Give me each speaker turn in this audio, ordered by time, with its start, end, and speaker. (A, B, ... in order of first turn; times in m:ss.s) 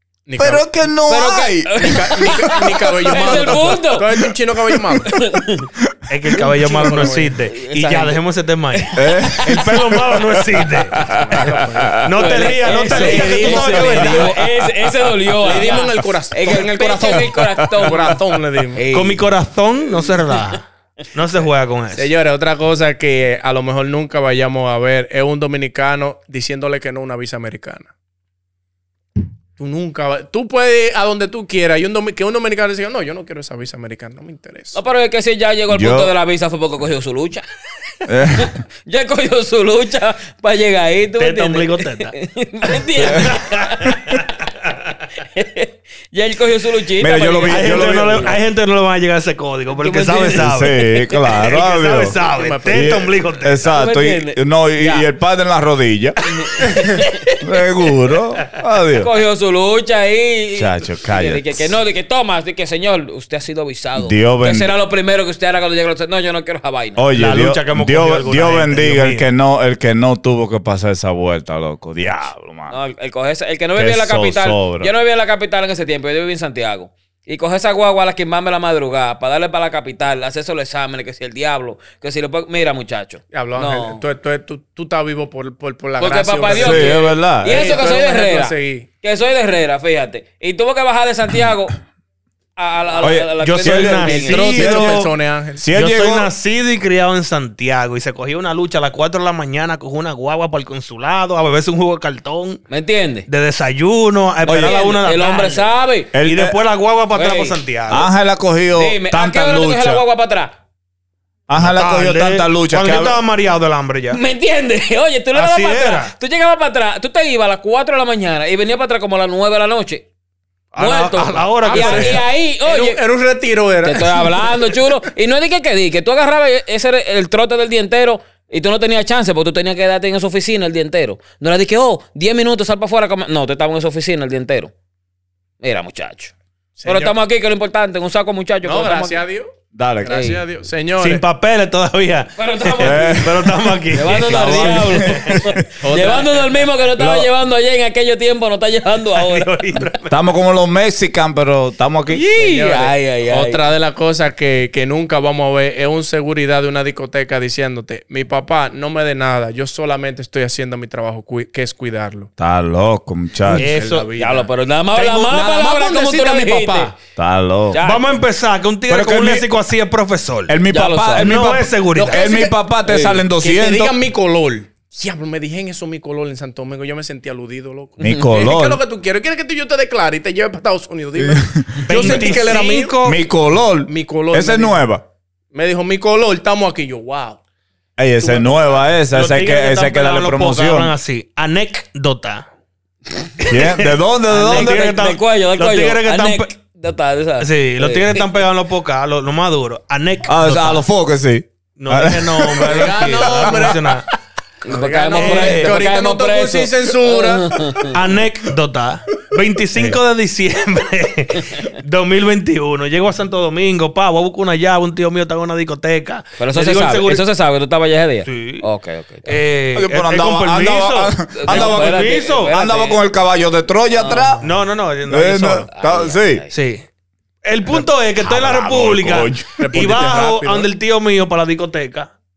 0:00.2-0:00.9 A
0:00.4-0:03.5 B
0:01.1-0:04.1 C
0:01.8-0:05.1 A
0:05.1-0:05.6 C
0:06.1-0:11.0 D
0:06.4-0:07.2 C
0:06.5-0:08.2 A
0:08.7-0:09.6 C
0:09.0-0:12.0 B
0:11.0-0:14.4 A
0:12.0-0:14.5 D
0:12.1-0:18.2 C
0:15.4-0:18.8 A
0:17.2-0:17.7 B
0:18.7-0:19.2 C
0:18.9-0:22.1 D
0:21.9-0:27.9 A
0:29.6-0:34.8 A
0:34.7-0:37.4 C
0:35.7-0:36.1 B
0:38.1-0:38.5 B
0:38.4-0:44.1 C
0:41.2-0:42.1 D
0:43.0-0:44.5 D
0:45.2-0:47.7 C
0:47.0-0:48.4 B
0:47.5-0:53.7 D
0:47.7-0:48.4 A
0:49.8-0:51.4 C
0:50.4-0:52.2 B
0:52.1-0:53.1 A
0:52.7-0:56.2 B
0:53.7-0:55.1 C
0:56.2-0:57.4 C
0:57.4-0:59.1 B
0:59.0-1:07.1 C
1:00.5-1:01.8 B
1:03.9-1:04.7 B
1:07.0-1:12.8 B
1:07.1-1:09.2 D
1:12.7-1:24.0 C
1:13.7-1:14.9 B
1:23.3-1:28.9 A
1:26.0-1:31.8 C
1:26.5-1:27.8 B
1:32.6-1:34.9 C
1:33.0-1:35.0 B
1:33.4-1:35.1 D
1:34.0-1:35.6 A
1:35.6-1:36.3 B
1:35.7-1:42.6 D
1:42.7-1:43.2 C
1:43.2-1:48.1 D
1:44.4-1:44.9 B
1:44.8-1:46.1 C
1:46.1-1:46.6 B
1:47.1-1:47.6 C
1:47.9-1:50.0 B
1:48.7-1:50.5 C
1:51.5-1:53.2 B
1:51.6-1:54.2 D
1:54.1-2:00.0 C
1:55.3-1:56.1 D
2:00.7-2:02.2 D
2:00.8-2:03.0 C
2:01.6-2:04.8 A
2:03.8-2:14.7 C
2:15.6-2:16.3 C
2:16.8-2:17.1 A
2:16.8-2:19.2 C
2:18.6-2:19.5 A
2:19.7-2:20.1 B
2:20.0-2:21.2 A
2:20.1-2:20.4 C
2:21.0-2:25.6 D
2:22.4-2:23.3 C
2:22.8-2:25.2 B
2:23.9-2:29.5 C
2:25.8-2:26.4 A
2:27.0-2:27.3 B
2:29.1-2:30.2 D
2:30.1-2:32.2 B
2:32.1-2:33.7 C
2:32.3-2:42.3 A
2:42.4-2:43.7 B
2:43.4-2:46.9 A
2:43.5-2:44.1 D
2:44.2-2:46.9 C
2:44.9-2:45.4 D
2:47.2-2:47.8 B
2:47.7-2:48.1 C
2:47.8-2:50.6 D
2:48.9-2:49.5 B
2:50.5-2:54.0 B
2:50.7-2:51.4 C
2:51.2-2:52.2 D
2:51.9-3:03.0 A
2:52.9-2:53.2 C
2:58.0-2:58.8 B
3:01.2-3:02.3 B
3:01.8-3:03.2 D
3:03.0-3:05.0 B
3:03.8-3:04.8 A
3:05.5-3:07.4 A
3:08.0-3:10.9 B
3:08.2-3:08.5 A
3:09.1-3:12.5 D
3:13.4-3:16.5 D
3:13.5-3:14.9 B
3:14.4-3:18.4 C
3:17.4-3:20.7 D
3:20.3-3:23.7 B
3:20.5-3:20.8 C
3:21.8-3:24.0 D
3:22.6-3:24.0 A
3:24.6-3:27.9 C
3:24.7-3:27.6 A
3:25.1-3:25.8 D
3:27.9-3:37.3 D
3:36.4-3:39.4 C
3:38.2-3:38.6 D
3:39.2-3:42.5 D
3:39.7-3:41.9 B
3:41.3-3:43.0 C
3:42.5-3:44.5 B
3:43.9-3:44.4 C
3:44.4-3:45.7 D
3:45.0-3:46.4 B
3:45.7-3:46.5 C
3:46.5-3:46.8 D
3:47.4-3:52.1 D
3:48.2-3:50.0 B
3:49.6-3:50.7 A